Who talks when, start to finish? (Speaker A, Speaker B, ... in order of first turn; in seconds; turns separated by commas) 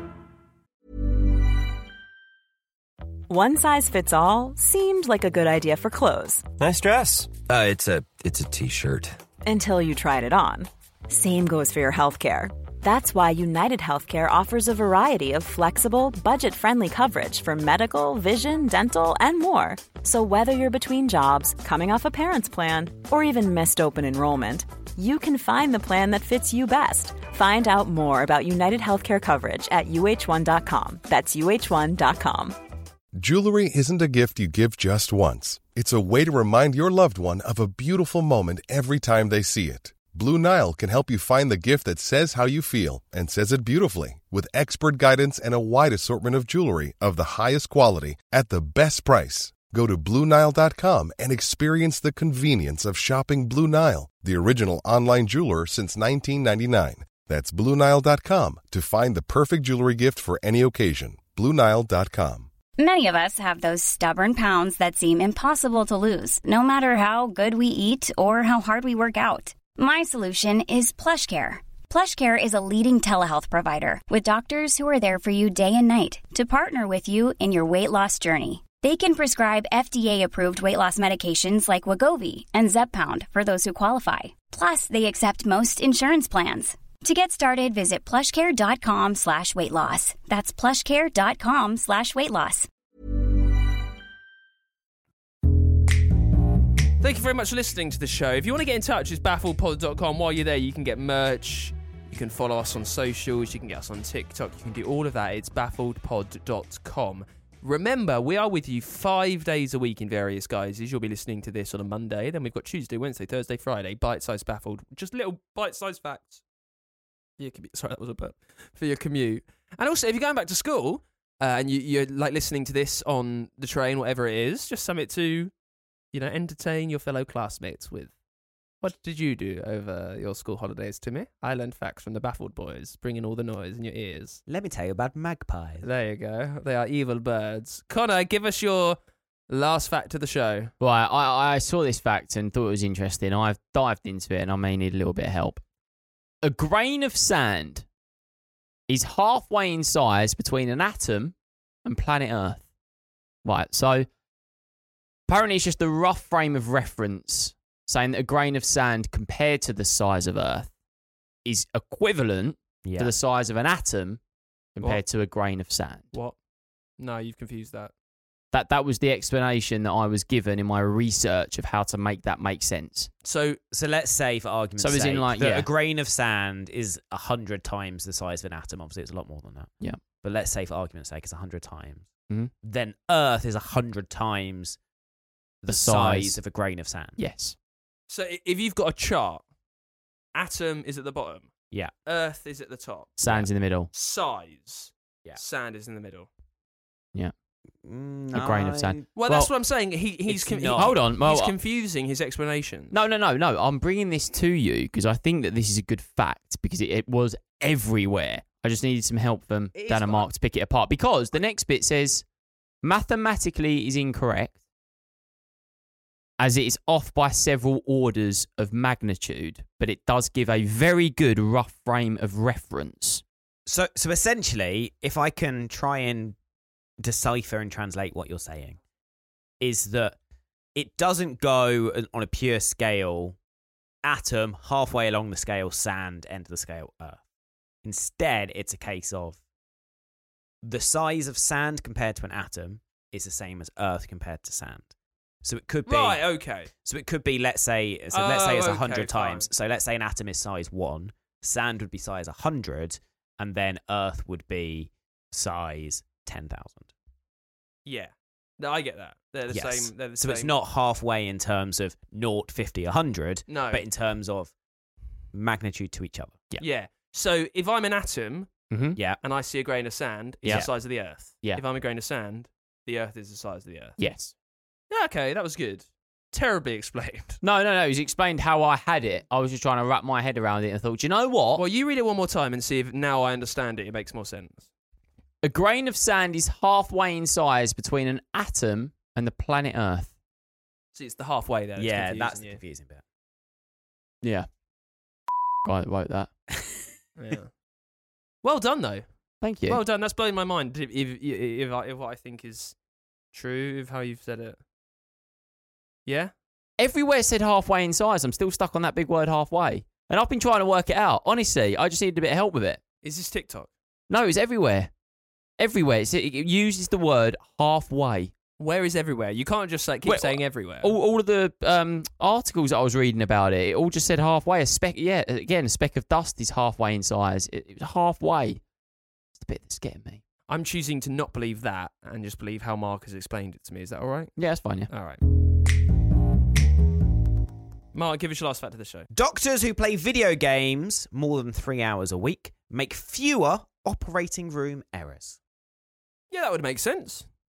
Speaker A: 3.3-6.4, Speaker B: 6.6-9.2, Speaker A: 9.4-32.5, Speaker C: 33.2-62.5, Speaker D: 62.8-92.7, Speaker E: 97.0-116.4, Speaker E: 117.4-125.5, Speaker E: 126.1-128.1, Speaker E: 128.8-134.4, Speaker F: 134.5-135.9, Speaker E: 135.8-139.0, Speaker E: 139.5-140.7, Speaker G: 140.8-145.6, Speaker G: 146.4-147.9, Speaker G: 148.9-152.6, Speaker G: 153.4-154.1, Speaker G: 155.3-160.7, Speaker G: 161.4-164.2, Speaker F: 162.8-163.1, Speaker G: 164.8-166.1, Speaker E: 167.0-167.9, Speaker G: 168.5-173.1, Speaker E: 173.2-173.6, Speaker F: 173.7-179.7, Speaker G: 174.8-175.7, Speaker F: 180.2-182.1, Speaker F: 182.6-184.8, Speaker F: 185.6-187.2, Speaker G: 185.7-186.4, Speaker G: 187.2-187.6, Speaker E: 188.1-189.4, Speaker E: 190.3-191.5, Speaker E: 192.1-196.3, Speaker G: 193.2-193.9, Speaker F: 197.8-199.1, Speaker G: 198.3-199.5, Speaker E: 199.2-202.9, Speaker F: 200.3-201.0, Speaker G: 200.8-201.5, Speaker G: 202.9-212.2, Speaker E: 209.7-210.3, Speaker G: 212.8-214.6, Speaker G: 216.4-223.2, Speaker F: 223.7-226.4, Speaker F: 227.0-228.8, Speaker F: 229.6-230.2, Speaker F: 230.8-233.4, Speaker F: 234.0-237.2, Speaker F: 237.8-239.4, Speaker F: 240.6-244.9, Speaker F: 245.4-256.9, Speaker E: 245.8-246.7, Speaker E: 248.1-249.5, Speaker E: 257.9-260.5, Speaker F: 259.5-264.5, Speaker E: 263.5-263.9, Speaker F: 265.3-266.4, Speaker E: 266.6-268.5, Speaker G: 268.7-269.0, Speaker E: 269.2-274.0, Speaker G: 270.4-270.7, Speaker G: 274.0-274.3, Speaker E: 274.9-277.4, Speaker G: 277.4-281.6, Speaker E: 281.6-284.7, Speaker G: 285.4-290.1, Speaker E: 290.9-292.6, Speaker F: 291.8-293.0, Speaker G: 294.2-294.5, Speaker G: 295.6-296.3, Speaker E: 297.2-297.5, Speaker E: 298.4-299.1, Speaker G: 299.4-299.8, Speaker E: 299.7-302.8, Speaker E: 303.3-304.6, Speaker E: 306.1-306.3, Speaker G: 306.8-312.8, Speaker E: 313.0-313.7, Speaker G: 314.1-314.9, Speaker G: 315.6-318.3, Speaker E: 318.6-320.9, Speaker G: 320.1-328.6, Speaker G: 329.4-330.2, Speaker E: 330.5-334.3, Speaker G: 334.4-334.9, Speaker E: 334.9-335.2, Speaker E: 337.9-339.1, Speaker F: 339.1-345.4, Speaker E: 346.3-347.3